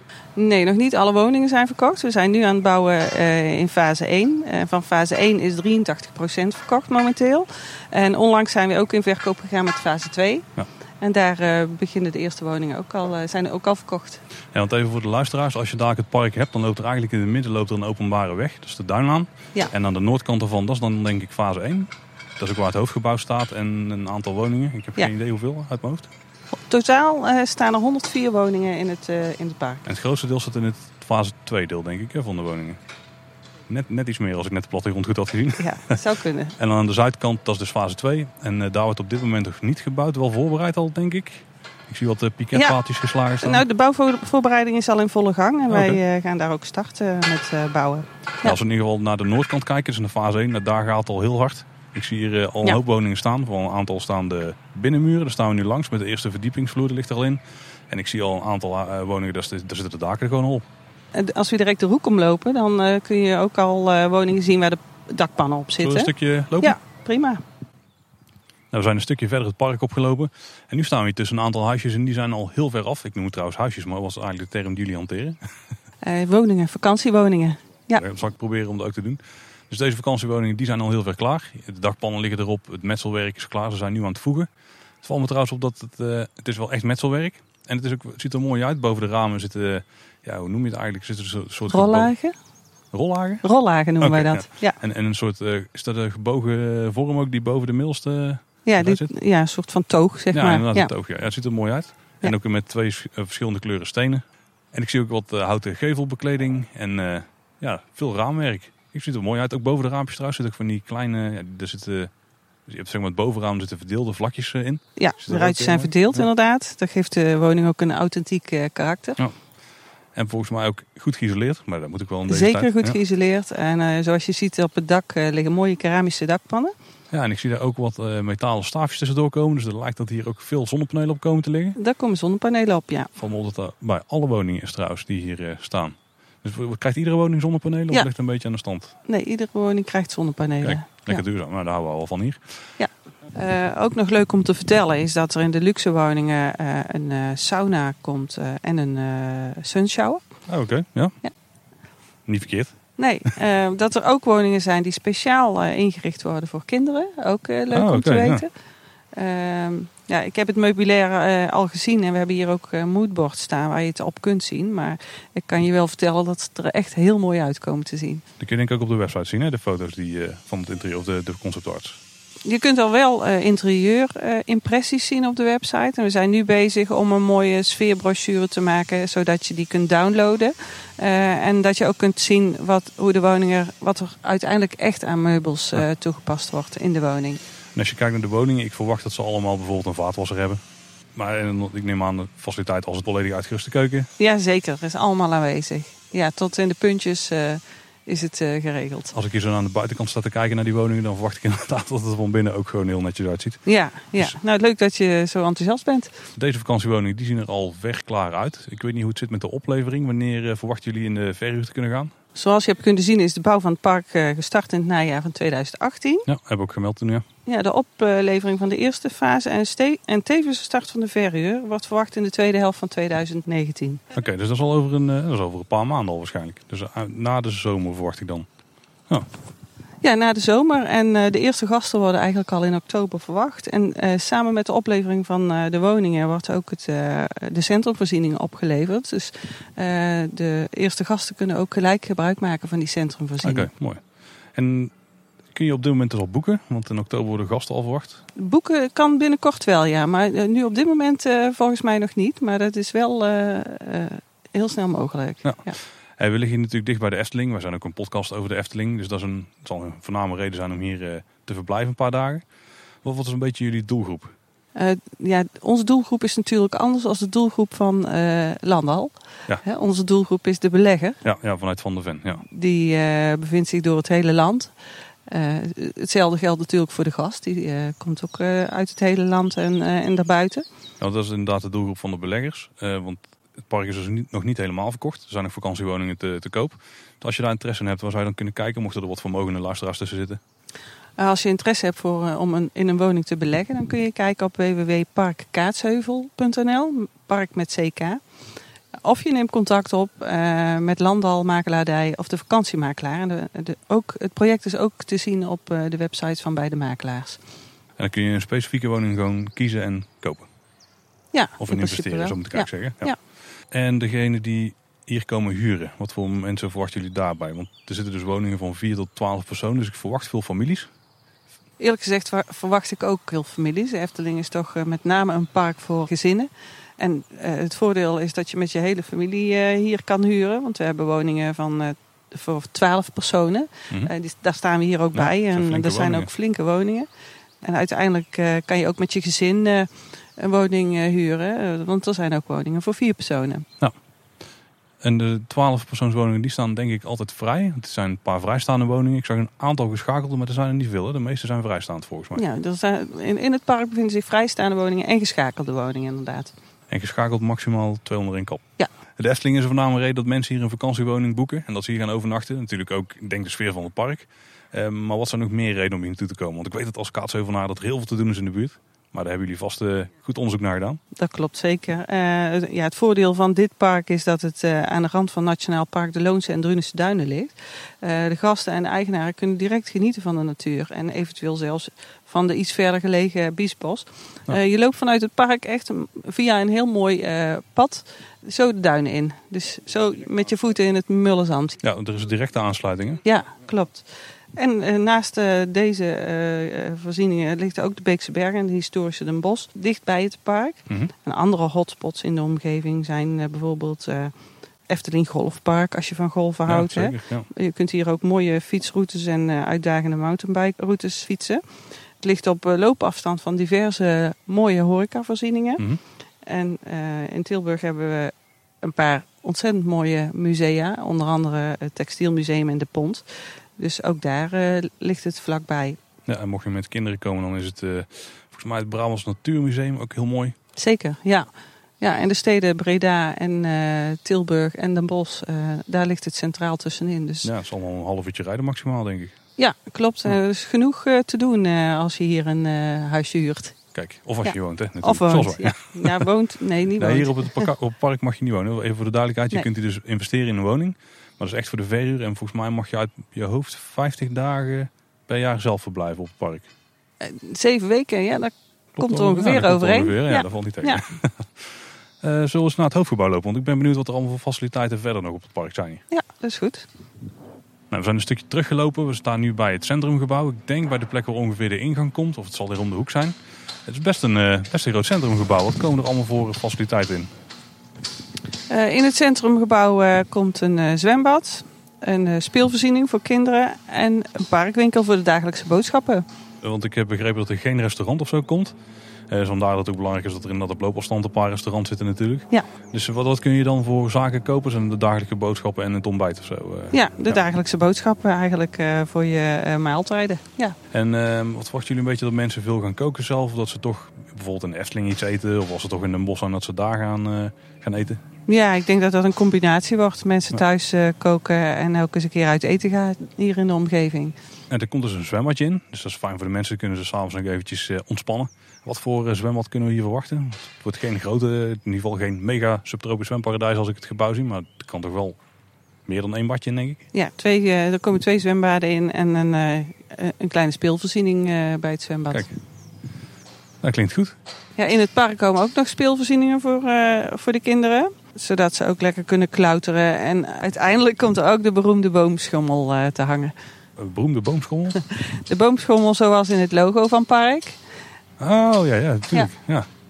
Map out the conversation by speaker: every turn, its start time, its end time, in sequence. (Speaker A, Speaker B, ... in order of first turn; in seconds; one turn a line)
Speaker A: 0.4-10.5
Speaker A: 11.0-14.2
Speaker B: 14.5-26.1
Speaker A: 26.5-29.9
Speaker B: 29.9-32.8
Speaker B: 33.7-36.0
Speaker A: 35.6-36.6
Speaker B: 36.6-43.6
Speaker A: 43.4-48.6
Speaker B: 45.7-46.0
Speaker B: 48.4-60.6
Speaker A: 61.1-67.4
Speaker B: 65.8-66.8
Speaker B: 68.7-75.4
Speaker A: 76.0-78.0
Speaker B: 78.0-84.5
Speaker B: 85.0-92.1
Speaker A: 91.7-92.4
Speaker B: 92.9-93.5
Speaker A: 93.4-94.8
Speaker B: 94.0-99.1
Speaker A: 98.7-100.9
Speaker B: 100.3-104.2
Speaker B: 104.7-112.1
Speaker B: 112.7-116.3
Speaker A: 115.0-119.2
Speaker B: 120.2-123.0
Speaker A: 122.3-126.7
Speaker B: 127.1-131.8
Speaker A: 131.8-133.1
Speaker B: 133.2-138.9
Speaker A: 139.1-141.2
Speaker B: 140.6-142.4
Speaker A: 142.8-150.3
Speaker B: 150.5-151.1
Speaker B: 152.3-152.8
Speaker A: 153.0-158.5
Speaker B: 157.7-158.4
Speaker A: 159.1-168.2
Speaker B: 168.4-172.0
Speaker A: 172.4-187.4
Speaker B: 187.8-190.6
Speaker B: 191.2-194.1
Speaker A: 194.2-199.1
Speaker B: 199.1-203.6
Speaker A: 203.7-206.1
Speaker B: 206.4-212.1
Speaker A: 212.3-216.3
Speaker B: 216.3-217.2
Speaker A: 217.5-224.1
Speaker B: 224.1-228.5
Speaker A: 230.0-243.7
Speaker B: 243.4-244.0
Speaker B: 244.6-244.9
Speaker B: 245.5-248.2
Speaker A: 248.4-255.8
Speaker B: 255.4-262.4
Speaker B: 263.0-264.3
Speaker A: 264.8-271.2
Speaker B: 271.2-272.4
Speaker A: 272.4-274.7
Speaker A: 275.3-280.6
Speaker B: 281.0-290.4
Speaker A: 291.2-298.2
Speaker A: 299.0-307.4
Speaker B: 308.0-310.5
Speaker A: 311.3-313.2
Speaker B: 311.6-313.2
Speaker B: 313.7-320.9
Speaker A: 321.8-337.1
Speaker B: 335.1-336.3
Speaker A: 337.6-343.7
Speaker B: 345.0-352.4
Speaker A: 352.4-356.5
Speaker B: 356.9-358.6
Speaker B: 359.2-371.0
Speaker A: 371.1-391.8
Speaker B: 391.8-393.2
Speaker A: 393.2-404.3
Speaker B: 400.9-401.1
Speaker A: 404.9-411.6
Speaker B: 406.7-407.5
Speaker A: 412.2-415.8
Speaker A: 416.4-426.0
Speaker B: 426.3-430.6
Speaker A: 430.8-437.5
Speaker B: 437.4-439.4
Speaker A: 439.6-443.8
Speaker B: 443.9-446.2
Speaker A: 444.4-447.7
Speaker B: 447.0-456.7
Speaker A: 457.2-461.0
Speaker B: 459.0-466.0
Speaker A: 466.1-466.9
Speaker B: 467.9-477.3
Speaker A: 478.7-486.2
Speaker B: 486.6-488.7
Speaker B: 489.3-497.4
Speaker A: 496.9-500.8
Speaker B: 500.9-508.2
Speaker A: 508.5-514.4
Speaker B: 514.7-525.4
Speaker B: 526.1-527.0
Speaker A: 527.1-532.5
Speaker B: 533.8-534.4
Speaker A: 534.8-543.5
Speaker B: 544.0-545.0
Speaker A: 545.0-547.8
Speaker B: 548.4-549.9